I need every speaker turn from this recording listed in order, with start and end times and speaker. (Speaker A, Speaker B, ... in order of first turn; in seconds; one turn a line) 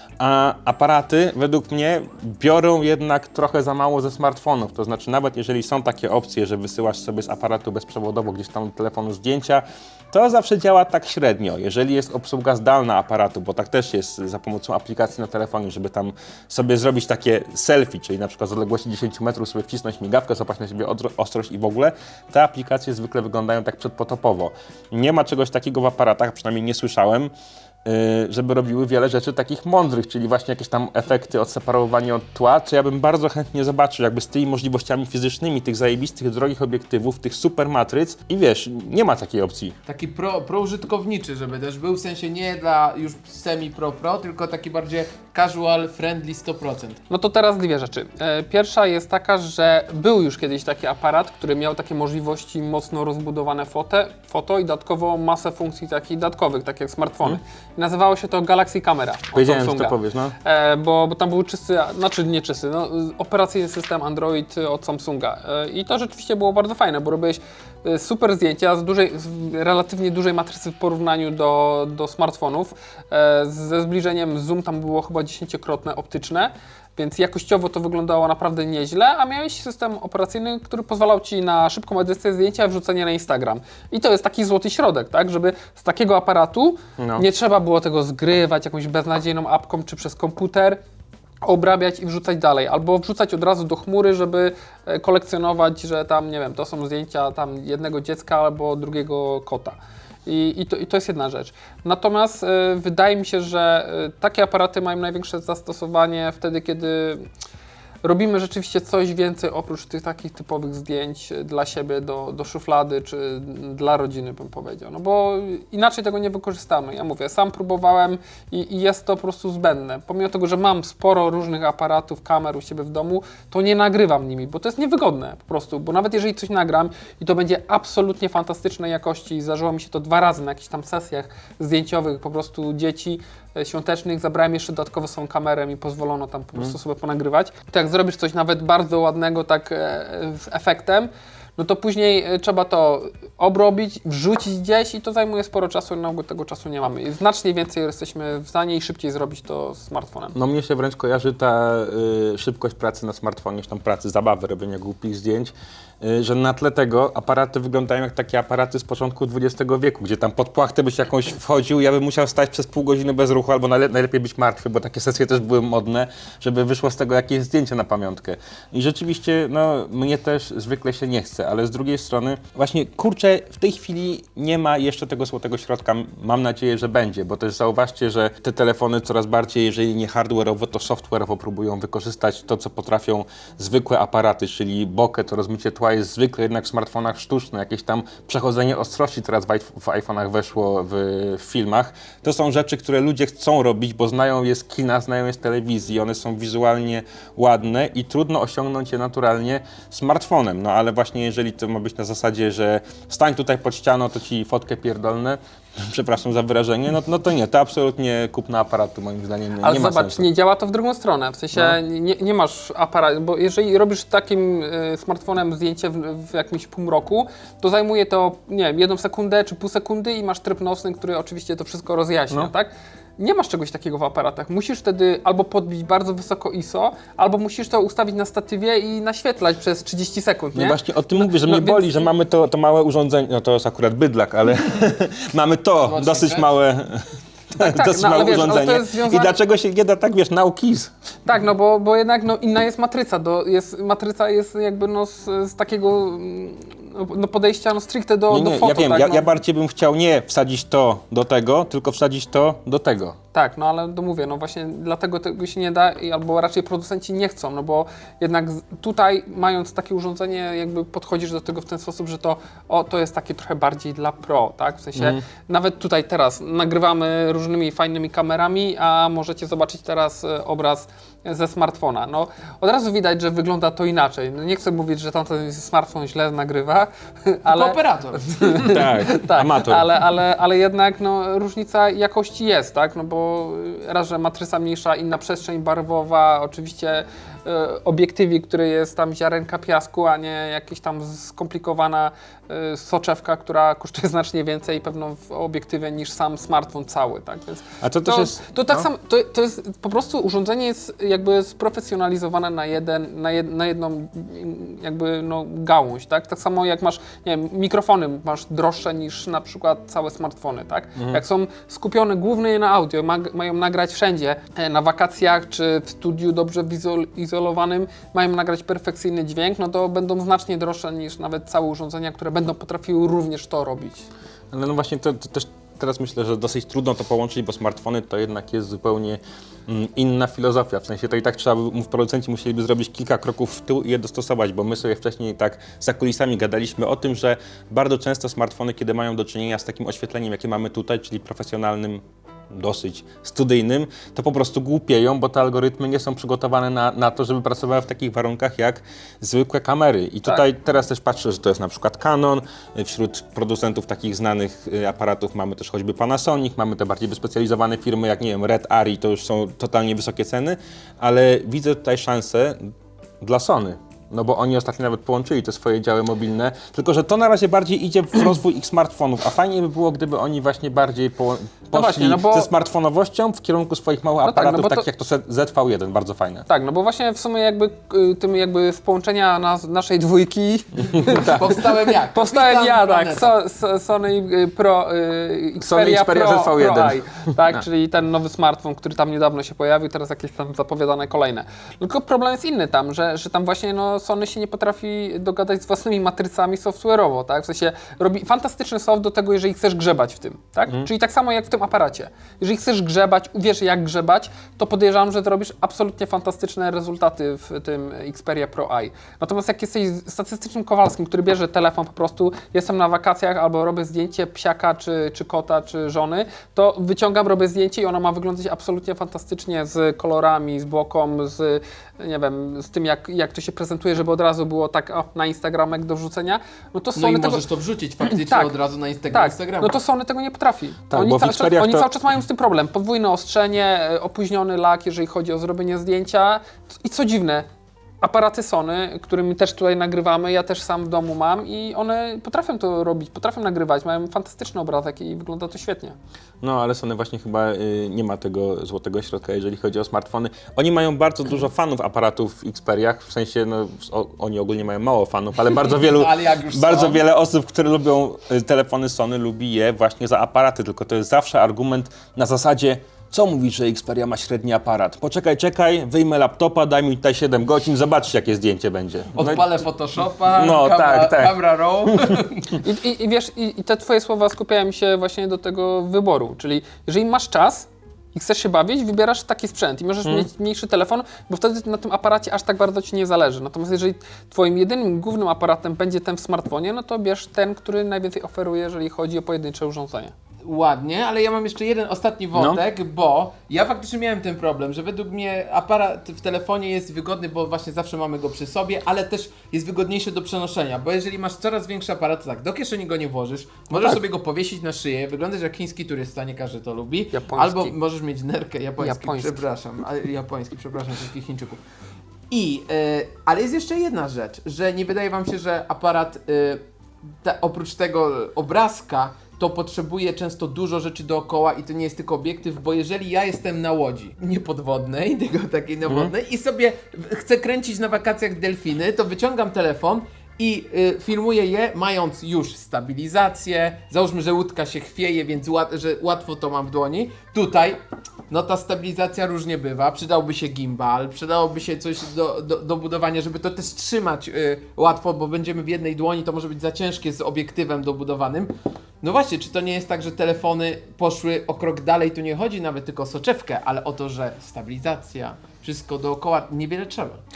Speaker A: 0.2-27.3
Speaker A: 27.8-39.8
Speaker B: 39.9-47.0
Speaker C: 47.1-90.8
Speaker A: 59.3-60.3
Speaker A: 87.0-87.2
Speaker C: 91.4-107.2
Speaker C: 108.0-150.3
Speaker A: 150.3-210.3
Speaker C: 209.6-232.1
Speaker A: 211.5-211.8
Speaker A: 230.6-240.9
Speaker B: 235.8-236.5
Speaker C: 237.6-239.4
Speaker C: 241.2-249.3
Speaker A: 248.3-253.2
Speaker C: 253.3-324.1
Speaker A: 264.9-265.2
Speaker B: 277.4-278.8
Speaker A: 278.7-279.9
Speaker A: 297.8-298.9
Speaker A: 324.5-376.4
Speaker C: 371.7-372.5
Speaker C: 374.2-374.9
Speaker C: 376.5-427.4
Speaker A: 381.0-381.4
Speaker B: 381.2-383.4
Speaker A: 385.6-387.6
Speaker B: 426.9-429.8
Speaker C: 428.0-428.5
Speaker C: 429.1-437.5
Speaker A: 430.9-431.9
Speaker C: 438.0-445.9
Speaker A: 446.4-469.5
Speaker B: 455.6-457.0
Speaker B: 469.1-472.6
Speaker A: 470.3-472.1
Speaker C: 472.6-490.1
Speaker B: 490.4-511.6
Speaker A: 492.3-492.6
Speaker C: 507.1-507.7
Speaker C: 508.8-509.4
Speaker B: 512.3-516.6
Speaker B: 517.2-557.2